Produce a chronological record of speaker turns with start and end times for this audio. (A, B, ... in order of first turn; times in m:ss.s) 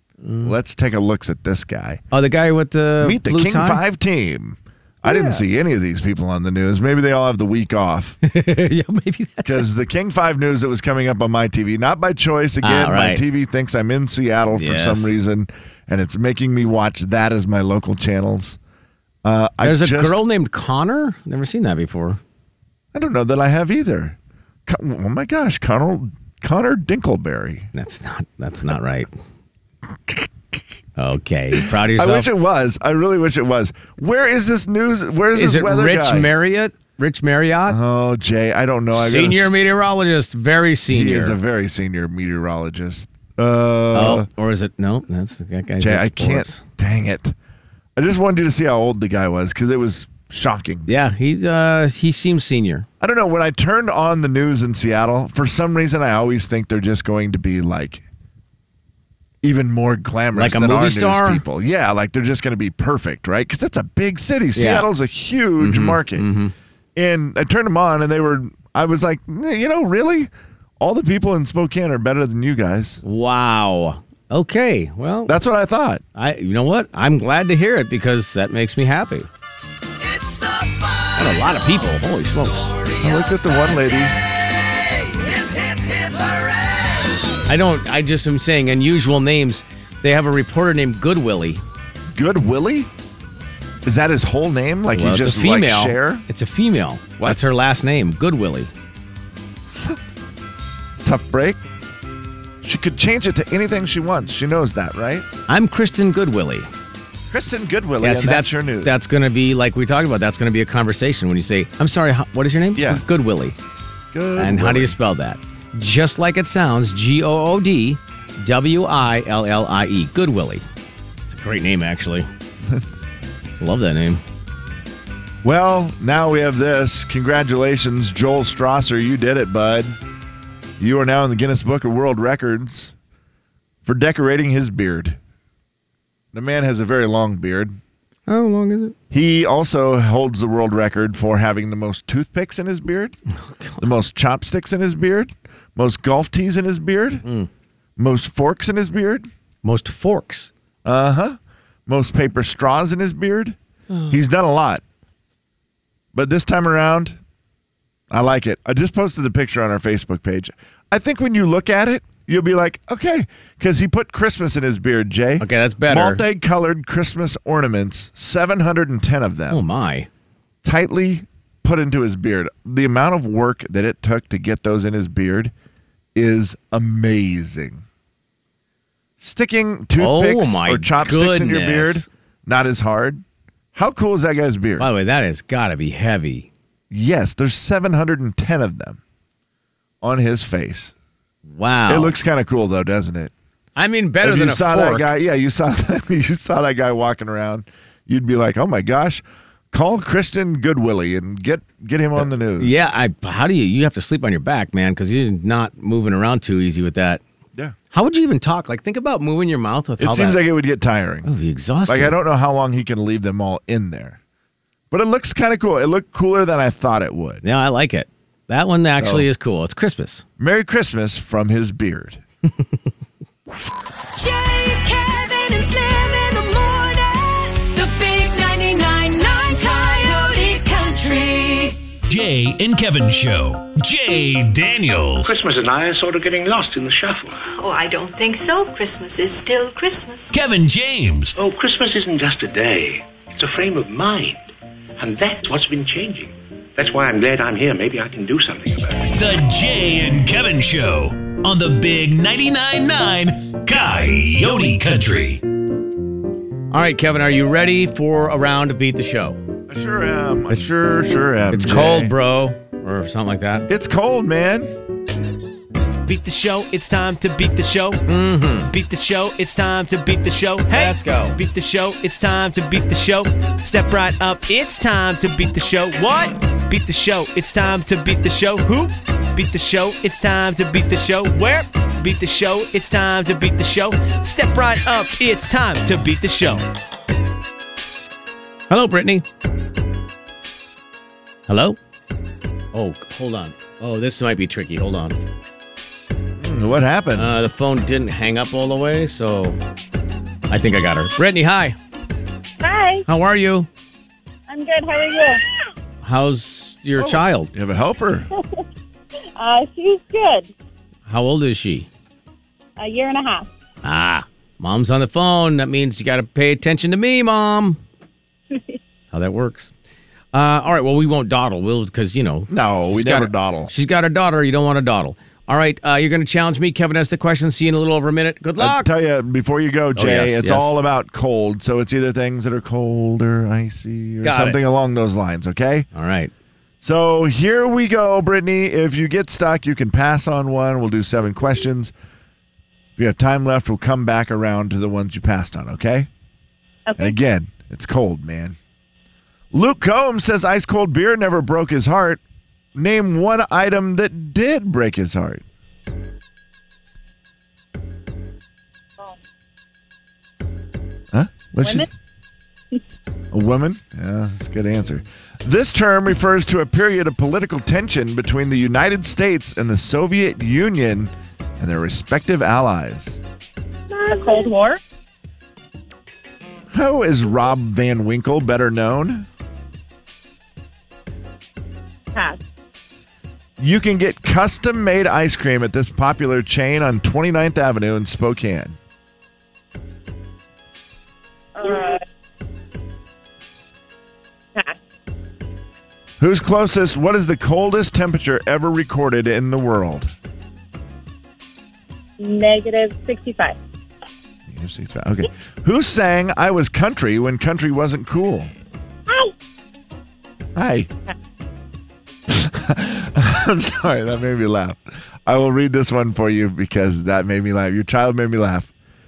0:00.2-0:00.5 A
0:00.4-0:02.0 B
0:02.1-0:03.8 A
0:03.0-0:08.2 B
0:05.0-0:05.4 A
0:08.2-0:09.7 A
0:09.4-0:18.6 B
0:12.6-0:13.2 A
0:14.5-0:15.1 A
0:19.2-0:20.2 B
0:19.6-0:22.2 A
0:22.9-0:27.7 B
0:27.7-0:29.1 A
0:31.0-0:32.3 A
0:31.5-0:36.3 B
0:35.3-0:37.8 A
0:37.7-0:39.5 B
0:38.9-0:41.4 A
0:40.9-0:44.3 B
0:43.9-0:46.6 A
0:45.8-0:47.3 B
0:48.0-0:50.9 B
0:50.9-0:52.8 A
0:53.0-0:58.0 B
0:59.4-1:06.3 B
1:00.3-1:01.4 A
1:04.5-1:04.9 A
1:05.6-1:06.5 A
1:07.0-1:13.0 B
1:13.0-1:15.4 A
1:15.2-1:16.0 B
1:16.2-1:19.3 A
1:21.1-1:22.7 A
1:23.0-1:24.2 B
1:27.5-1:31.6 A
1:32.1-1:32.9 B
1:33.8-1:36.2 B
1:34.9-1:38.7 A
1:41.0-1:41.6 B
1:42.6-1:45.3 B
1:45.5-1:46.7 A
1:47.3-1:49.0 B
1:48.0-1:53.6 A
1:52.7-1:53.0 B
1:54.1-1:55.0 B
1:54.4-2:00.6 A
2:01.3-2:02.3 A
2:03.6-2:04.2 A
2:05.4-2:10.0 B
2:10.8-2:12.9 B
2:13.8-2:15.2 B
2:16.3-2:17.8 B
2:18.3-2:18.9 A
2:19.1-2:23.2 B
2:23.5-2:23.8 A
2:23.8-2:27.2 B
2:28.0-2:29.3 B
2:29.6-2:30.5 A
2:30.8-2:33.6 B
2:34.1-2:34.8 B
2:36.1-2:37.2 B
2:38.1-2:49.6 B
2:45.4-2:46.2 A
2:49.5-2:50.1 A
2:50.6-2:55.5 B
2:56.1-2:57.8 B
2:59.2-3:03.2 B
3:00.0-3:02.1 A
3:03.7-3:04.9 B
3:04.8-3:06.5 A
3:06.9-3:09.0 B
3:10.0-3:10.9 B
3:11.5-3:12.1 A
3:11.9-3:13.3 B
3:13.8-3:15.1 A
3:14.2-3:22.8 B
3:22.2-3:27.2 A
3:27.9-3:30.4 A
3:30.0-3:31.3 B
3:31.2-3:32.2 A
3:31.9-3:34.2 B
3:34.9-3:37.4 B
3:37.4-3:40.2 A
3:39.0-3:39.3 B
3:40.4-3:42.2 B
3:44.2-3:51.8 C
3:52.1-3:55.3 D
3:55.2-3:57.4 E
3:57.5-4:00.3 F
4:00.3-4:01.3 D
4:01.4-4:09.1 E
4:09.1-4:15.4 D
4:16.7-4:19.4 A
4:19.7-4:22.1 B
4:21.5-4:23.7 A
4:23.7-4:24.7 B
4:26.0-4:28.0 G
4:28.1-4:28.7 A
4:28.7-4:46.6 G
4:30.7-4:31.4 A
4:48.7-4:49.2 A
4:51.5-4:51.8 A
4:52.7-4:55.2 A
4:56.4-4:57.3 B
4:57.2-4:59.6 A
5:00.5-5:01.8 A
5:02.6-5:03.0 H
5:03.1-5:03.7 A
5:04.5-5:05.4 H
5:06.0-5:07.5 A
5:07.0-5:08.3 B
5:09.4-5:10.5 H
5:11.1-5:11.9 A
5:12.8-5:13.5 H
5:13.8-5:17.8 A
5:19.1-5:19.7 A
5:20.3-5:28.9 A
5:22.5-5:23.7 B
5:28.6-5:35.9 B
5:30.0-5:30.7 A
5:34.2-5:34.6 A
5:35.9-5:36.3 A
5:36.8-5:41.9 B
5:43.0-5:46.1 B
5:46.9-5:47.1 H
5:47.0-5:48.6 B
5:49.5-5:52.2 B
5:52.7-5:55.4 B
6:01.1-6:01.9 B
6:03.3-6:13.2 B
6:13.9-6:14.8 H
6:16.7-6:19.3 B
6:22.1-6:22.4 H
6:23.6-6:28.8 B
6:31.6-6:32.0 H
6:36.2-6:40.1 B
6:42.2-6:43.6 H
6:44.5-6:48.5 B
6:50.6-6:50.9 B
6:52.3-6:58.7 B